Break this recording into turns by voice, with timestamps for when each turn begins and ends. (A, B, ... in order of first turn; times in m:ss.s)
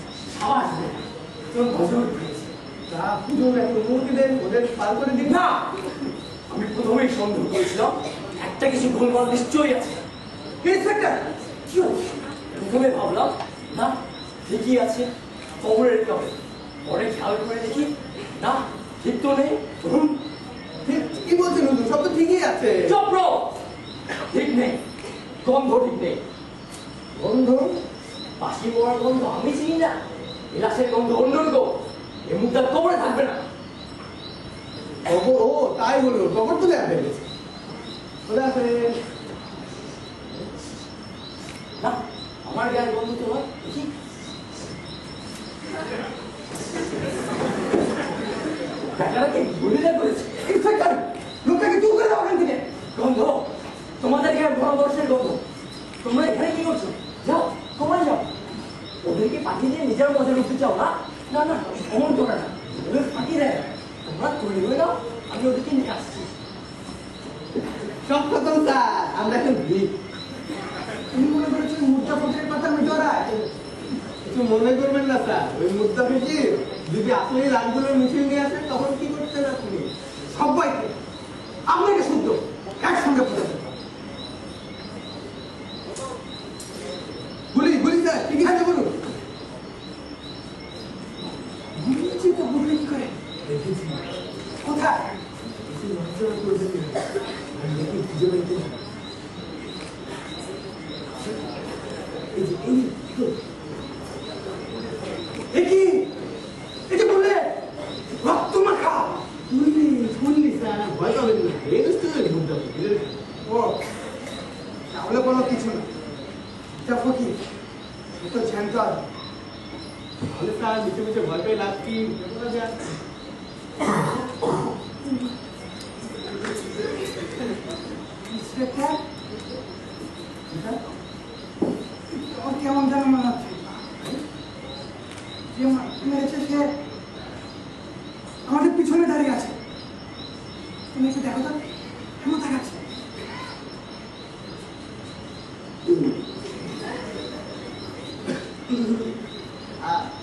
0:00.3-0:02.5 A
0:02.9-0:05.4 B
0:05.2-0:05.7 A
0:06.5-0:10.0 A
0:10.6-0:11.3 C
0:11.7-0:20.2 A
0:20.8-0:23.0 B
0:22.8-0:23.6 A
0:24.3-0:24.8 A
0:25.4-0:26.2 A
0:27.1-0:27.7 B
0:28.4-0:30.0 A
0:30.5-0:33.4 A
0:35.0-0:37.2 B
0:38.2-0:39.0 B
0:41.8-0:43.9 A
0:49.0-0:50.4 A
0:50.4-0:52.7 C
0:52.9-0:55.4 A
0:56.0-0:58.3 A
0:59.0-1:06.3 A
1:07.8-1:09.9 B
1:11.1-1:13.3 C
1:14.2-1:19.9 B
1:20.3-1:20.9 C
1:21.7-1:23.7 C
1:27.5-1:28.9 B
1:31.7-1:33.1 C
1:33.4-1:34.0 B
1:34.6-1:35.1 C
1:35.7-1:38.8 B
1:42.3-1:43.3 B
1:45.5-1:46.1 C
1:46.9-1:47.5 C
1:48.2-1:49.2 C
1:49.5-1:53.2 B
1:53.4-1:53.8 C
1:54.9-1:55.8 C
1:56.8-1:57.4 C
1:58.1-1:59.0 C
2:00.2-2:02.8 B
2:08.2-2:09.0 C
2:10.5-2:10.8 B
2:12.1-2:13.9 C
2:15.5-2:16.7 C
2:18.4-2:19.6 C
2:20.9-2:21.6 C
2:22.2-2:22.9 C
2:25.8-2:26.2 B
2:28.7-2:29.0 B
2:29.8-2:30.1 B